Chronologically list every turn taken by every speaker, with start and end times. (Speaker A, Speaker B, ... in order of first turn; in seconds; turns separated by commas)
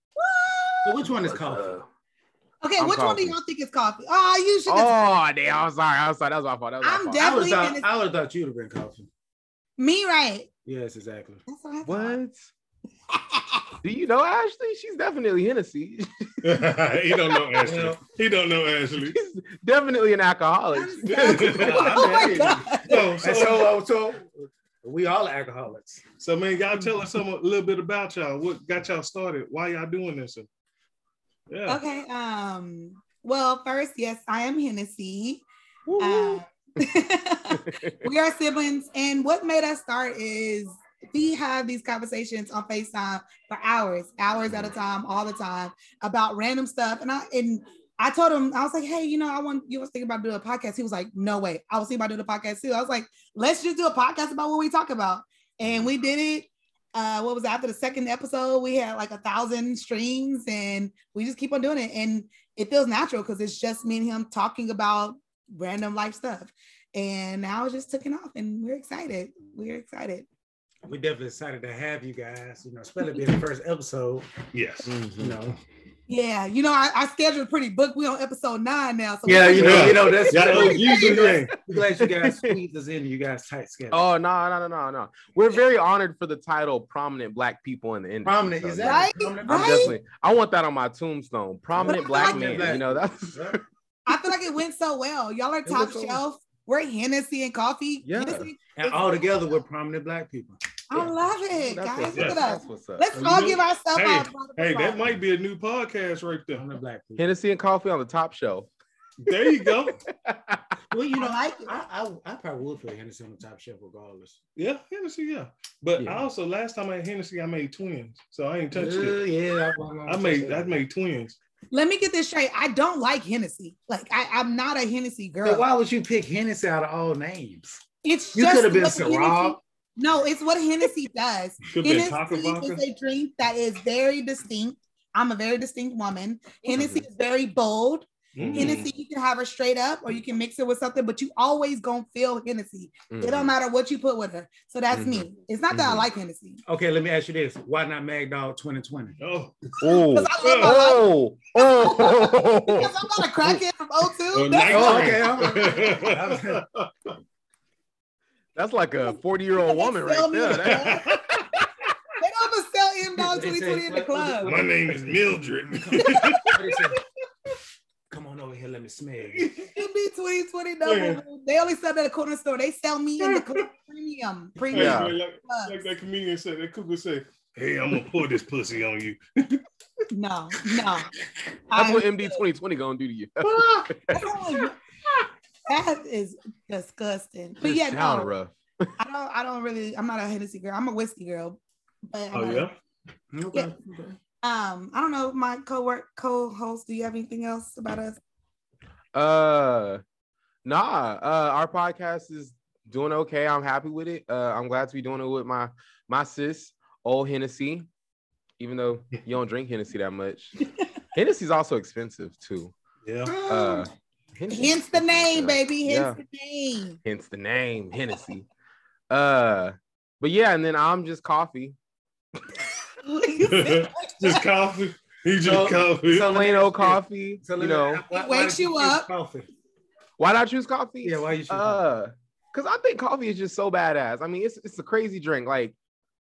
Speaker A: 0.2-1.1, Speaker B: 0.8-1.8, Speaker C: 1.1-1.8, Speaker A: 2.6-5.0, Speaker C: 2.8-3.4, Speaker C: 4.7-7.5, Speaker A: 6.8-7.8, Speaker B: 7.2-9.1, Speaker A: 9.8-10.5, Speaker B: 10.7-11.4, Speaker A: 11.5-12.2, Speaker C: 11.8-12.5, Speaker A: 13.1-13.7, Speaker C: 13.8-16.6, Speaker D: 16.4-19.1, Speaker B: 17.6-18.0, Speaker C: 19.1-22.4, Speaker A: 20.7-23.2, Speaker D: 21.0-23.7, Speaker B: 21.4-26.0, Speaker D: 26.2-30.5, Speaker D: 31.5-31.8, Speaker A: 31.7-35.4, Speaker C: 35.9-36.4, Speaker A: 36.0-70.3, Speaker C: 37.5-38.1, Speaker B: 70.8-74.3, Speaker D: 74.5-75.3, Speaker C: 75.0-75.3, Speaker B: 75.2-75.6, Speaker A: 76.1-81.3, Speaker B: 79.2-84.0, Speaker D: 79.6-81.6, Speaker C: 82.0-82.4, Speaker C: 83.9-93.6, Speaker B: 88.2-90.0, Speaker A: 88.8-89.9, Speaker B: 91.7-93.6, Speaker A: 91.8-92.8, Speaker A: 94.1-99.2, Speaker B: 95.7-96.1, Speaker C: 95.8-96.1, Speaker C: 98.0-98.5, Speaker B: 98.7-100.6, Speaker A: 100.9-105.0, Speaker C: 101.0-103.2, Speaker D: 102.1-102.4, Speaker D: 103.1-106.7, Speaker B: 106.5-107.3, Speaker C: 107.2-108.7, Speaker D: 109.2-110.0, Speaker C: 110.1-110.7, Speaker B: 110.9-114.4, Speaker A: 111.1-111.7, Speaker D: 114.5-119.2, Speaker C: 116.0-116.2, Speaker B: 118.7-120.8, Speaker D: 120.0-121.3, Speaker A: 121.7-125.7, Speaker B: 125.4-127.8, Speaker A: 128.0-146.6, Speaker B: 128.3-129.6, Speaker D: 131.7-132.8, Speaker C: 136.7-137.0, Speaker D: 138.3-138.9, Speaker C: 143.1-143.5, Speaker C: 144.9-146.0, Speaker B: 146.7-149.2, Speaker D: 149.2-149.7, Speaker C: 149.8-153.6, Speaker A: 149.8-155.4, Speaker D: 150.4-150.8, Speaker D: 154.3-157.1, Speaker B: 154.7-156.6, Speaker C: 158.5-161.2, Speaker A: 159.6-161.1, Speaker D: 160.6-161.7, Speaker A: 162.2-164.5, Speaker B: 163.2-167.0, Speaker D: 164.4-166.9, Speaker A: 166.1-166.4, Speaker B: 168.1-169.5, Speaker D: 169.4-169.7, Speaker A: 169.7-175.8, Speaker D: 170.8-171.2, Speaker D: 173.2-173.7, Speaker C: 174.7-175.1, Speaker D: 174.7-179.6, Speaker A: 180.1-181.1, Speaker A: 181.7-182.4, Speaker C: 181.7-184.3, Speaker D: 183.4-183.9, Speaker A: 184.1-184.8, Speaker A: 185.7-188.3, Speaker C: 187.6-188.9, Speaker A: 189.0-192.7, Speaker D: 192.3-192.7, Speaker B: 193.3-194.2, Speaker A: 194.4-198.2, Speaker C: 199.1-200.0, Speaker C: 200.6-207.9, Speaker C: 208.6-210.5, Speaker C: 211.1-212.7, Speaker D: 213.0-213.3, Speaker B: 213.2-213.9, Speaker C: 213.4-216.2, Speaker A: 214.5-217.0, Speaker C: 217.0-218.4, Speaker C: 219.1-221.8, Speaker A: 223.0-224.4, Speaker D: 223.4-226.3, Speaker B: 225.4-229.5, Speaker C: 226.2-228.0, Speaker A: 228.1-229.1, Speaker C: 230.2-235.7, Speaker B: 231.0-231.8